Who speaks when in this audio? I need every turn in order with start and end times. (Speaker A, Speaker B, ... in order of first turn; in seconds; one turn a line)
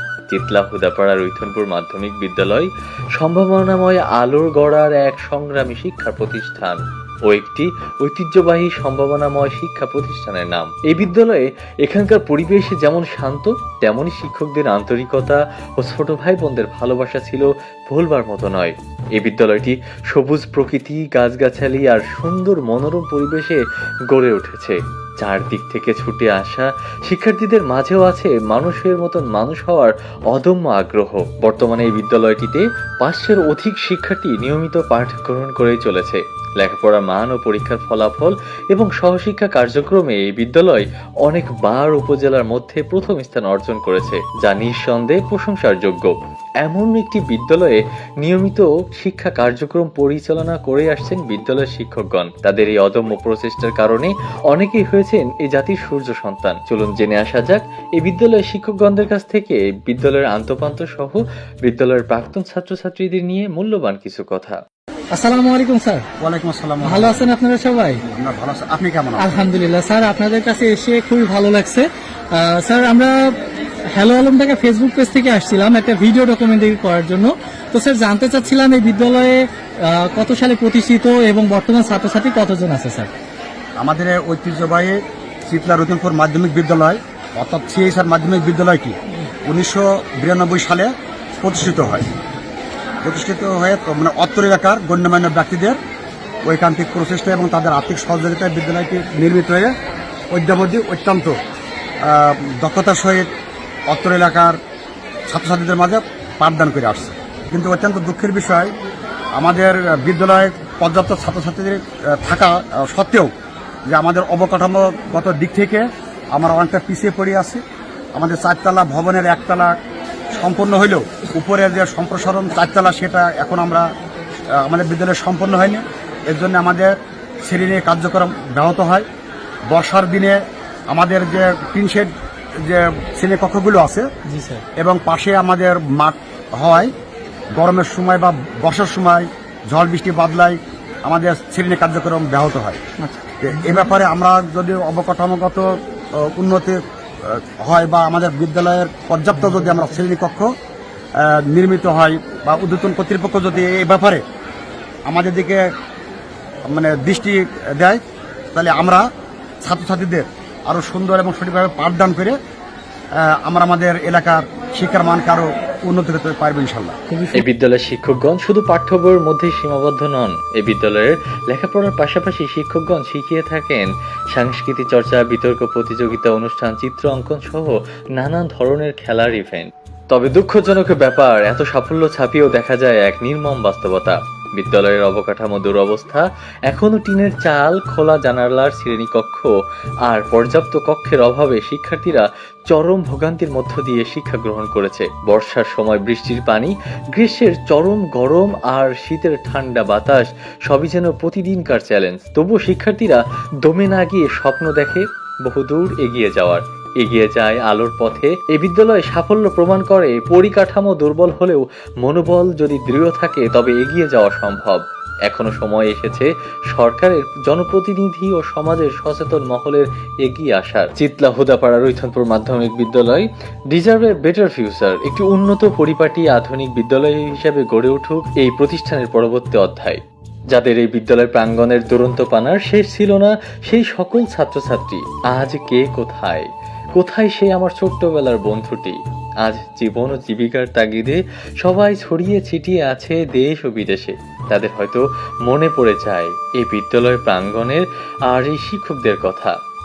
Speaker A: 0.3-64.6
Speaker B: 65.1-66.0
Speaker C: 66.2-67.3
Speaker B: 66.8-68.0
Speaker C: 68.0-69.3
Speaker B: 69.2-73.2
Speaker B: 73.9-83.1
Speaker C: 83.8-89.0
Speaker C: 89.5-92.1
Speaker C: 93.0-95.8
Speaker C: 96.5-99.7
Speaker C: 100.3-101.3
Speaker C: 102.0-103.3
Speaker C: 103.9-104.6
Speaker C: 105.3-108.7
Speaker C: 109.4-113.3
Speaker C: 113.9-117.6
Speaker C: 118.1-119.7
Speaker C: 120.3-123.9
Speaker C: 124.5-129.1
Speaker C: 129.7-130.4
Speaker C: 130.9-132.1
Speaker C: 132.6-134.1
Speaker B: 134.3-134.6
Speaker C: 134.8-136.9
Speaker C: 137.6-142.8
Speaker B: 143.0-143.4
Speaker C: 143.4-150.5
Speaker C: 151.2-154.2
Speaker C: 155.1-155.6
Speaker C: 156.7-158.0
Speaker C: 158.5-159.0
Speaker C: 159.6-162.4
Speaker C: 163.2-167.0
Speaker B: 167.1-167.4
Speaker A: 167.3-189.5
Speaker A: 190.1-249.5